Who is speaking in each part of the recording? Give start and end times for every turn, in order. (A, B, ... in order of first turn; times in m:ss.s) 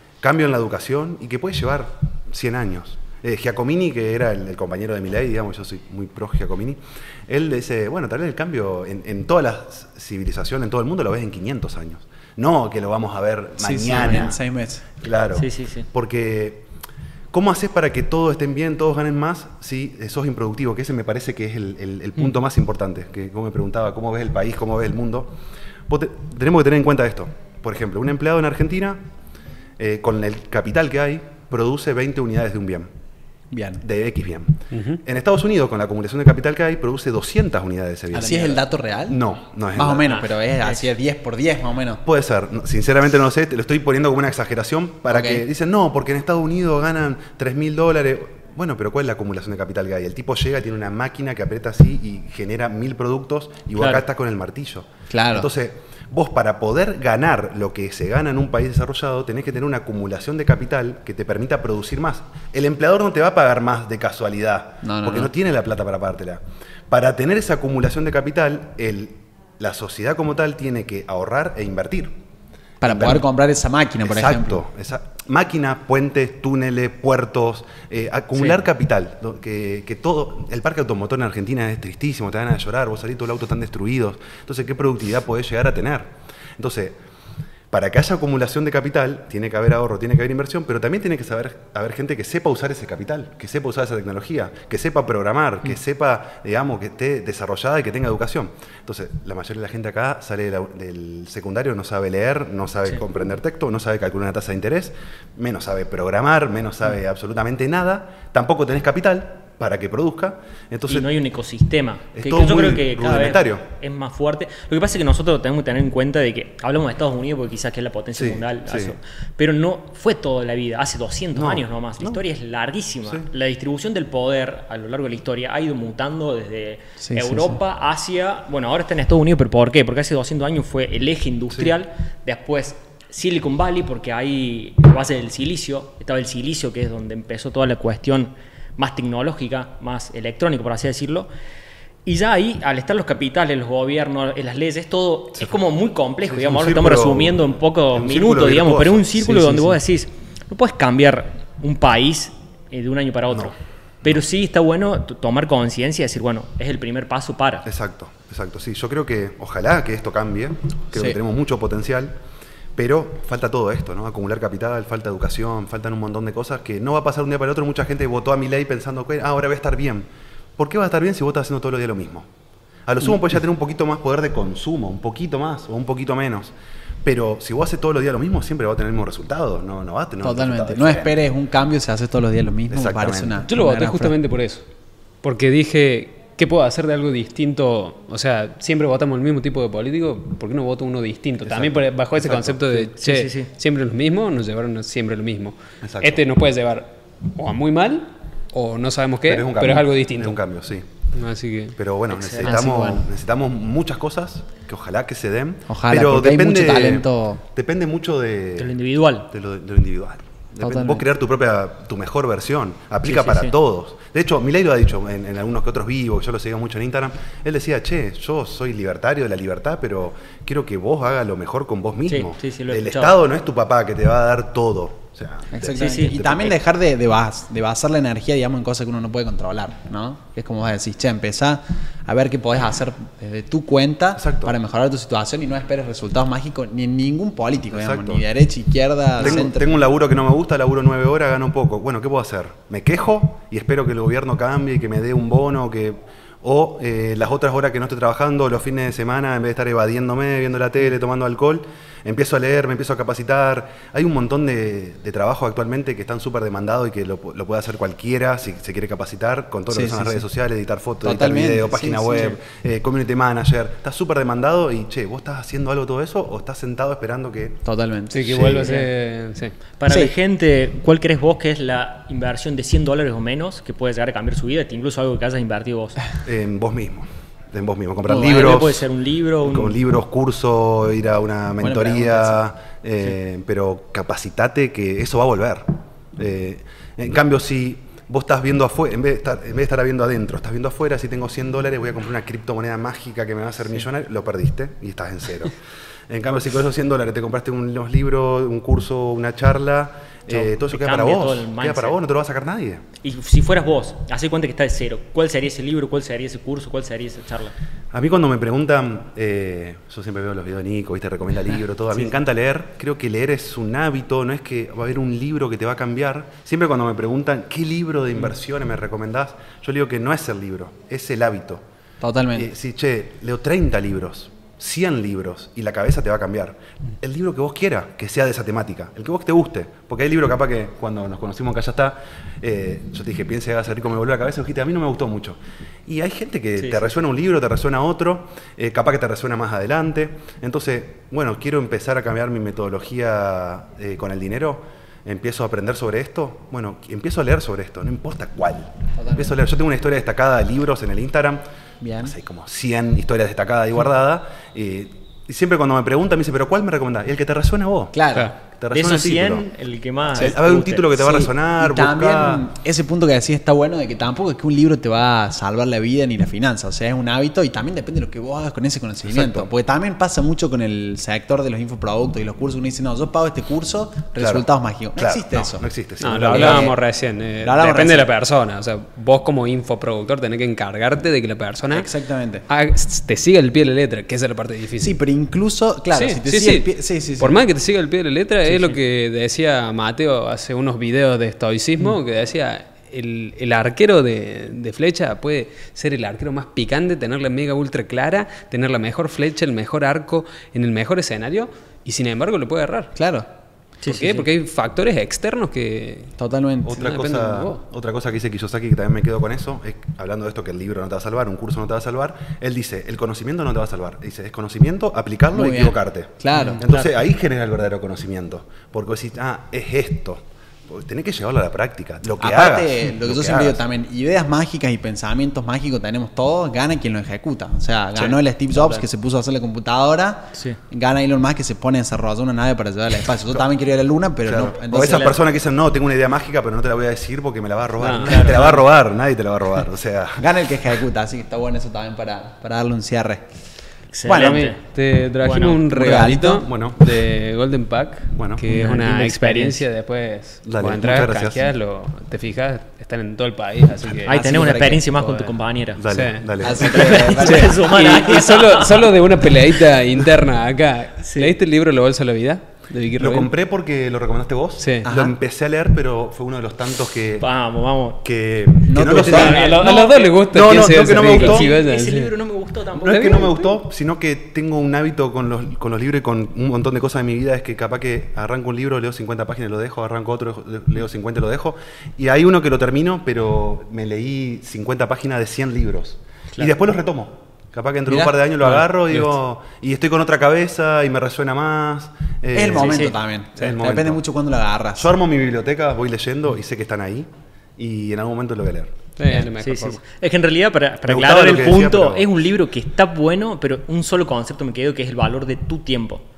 0:00.2-0:14.4 A
0:13.6-0:14.8 B
0:15.0-0:16.7 A
0:15.4-0:15.9 C
0:17.3-0:25.4 A
0:25.9-0:29.0 A
0:29.8-0:32.9 A
0:33.5-0:33.8 B
0:33.8-0:40.2 A
0:34.7-0:35.0 D
0:38.1-0:39.2 B
0:39.7-0:42.0 B
0:40.0-0:40.8 C
0:42.0-1:12.1 A
0:45.1-0:45.4 B
0:53.8-0:54.0 C
0:55.1-0:55.5 B
1:04.8-1:05.3 B
1:12.8-1:13.3 A
1:12.8-1:14.6 B
1:14.0-1:27.0 A
1:27.7-1:51.2 A
1:50.9-2:21.3 C
1:52.1-1:53.6 A
1:58.1-1:59.0 A
2:01.3-2:02.2 A
2:07.0-2:07.6 B
2:22.0-2:37.7 C
2:26.2-2:29.3 A
2:29.2-2:29.6 B
2:37.6-2:42.2 A
2:42.8-2:52.3 A
2:52.9-3:01.2 A
3:00.2-3:04.2 B
3:02.7-3:03.4 A
3:03.5-3:04.6 D
3:05.2-3:20.4 D
3:11.4-3:12.9 A
3:13.0-3:13.5 C
3:15.8-3:16.2 A
3:19.3-3:20.9 A
3:21.1-3:21.8 D
3:21.8-3:28.8 A
3:22.1-3:22.5 C
3:22.4-3:23.0 B
3:25.7-3:27.4 B
3:28.6-3:29.3 C
3:29.3-3:46.6 A
3:30.6-3:31.0 B
3:33.0-3:33.5 C
3:42.1-3:43.2 C
3:45.5-3:59.7 B
3:45.8-3:46.2 C
3:54.2-3:54.6 A
3:57.7-3:58.2 A
3:59.2-4:27.6 A
4:19.7-4:20.2 B
4:21.0-4:22.4 B
4:27.6-4:28.7 B
4:28.1-4:29.6 D
4:28.2-4:28.7 A
4:29.8-4:36.0 C
4:29.9-4:30.1 B
4:36.2-4:38.9 A
4:38.1-4:38.6 B
4:38.2-4:39.8 C
4:39.4-4:55.6 A
4:41.6-4:42.4 B
4:56.1-5:02.8 A
5:00.3-5:02.0 C
5:03.0-5:07.5 C
5:07.9-5:21.6 A
5:22.0-5:22.5 B
5:22.4-5:51.4 A
5:36.6-5:36.9 C
5:49.0-5:49.4 B
5:51.8-5:52.2 B
5:52.0-5:59.5 A
5:57.9-5:58.3 B
5:58.7-6:00.8 C
6:00.1-6:02.5 A
6:01.0-6:16.8 B
6:09.0-6:09.5 A
6:14.2-6:16.8 A
6:16.0-6:21.9 D
6:17.4-6:18.1 B
6:21.7-6:22.4 B
6:22.5-6:25.0 D
6:24.8-6:27.4 B
6:25.9-6:42.9 D
6:28.4-6:28.8 B
6:43.0-6:43.3 B
6:43.8-6:44.3 C
6:43.9-6:46.1 D
6:46.2-6:46.8 B
6:46.6-7:03.6 A
6:46.8-6:47.6 D
6:55.3-6:56.9 B
6:56.3-6:56.6 D
7:02.2-7:15.2 B
7:14.2-7:20.3 A
7:14.8-7:15.2 C
7:17.8-7:18.6 D
7:18.1-7:18.5 C
7:20.2-7:23.3 B
7:23.9-7:24.6 C
7:24.1-7:24.4 B
7:24.1-7:43.3 D
7:25.2-7:25.6 C
7:25.7-7:26.5 B
7:26.4-7:26.8 A
7:28.2-7:28.4 A
7:28.5-7:29.6 B
7:28.6-7:29.5 C
7:30.4-7:31.5 A
7:34.1-7:34.9 B
7:34.1-7:35.8 C
7:35.8-7:37.0 A
7:36.4-7:38.0 B
7:36.6-7:38.9 C
7:41.1-7:41.3 C
7:43.0-7:47.3 A
7:44.6-7:44.8 D
7:44.8-7:45.1 B
7:47.2-7:48.0 C
7:48.0-7:51.5 A
7:48.7-7:49.5 B
7:48.7-7:53.6 C
7:48.8-7:52.2 D
7:52.8-8:14.0 A
7:52.9-7:53.2 D
8:07.9-8:09.1 D
8:12.3-8:14.9 B
8:12.5-8:12.9 C
8:14.8-8:18.8 A
8:19.0-8:19.8 D
8:19.1-8:26.0 C
8:20.9-8:22.1 A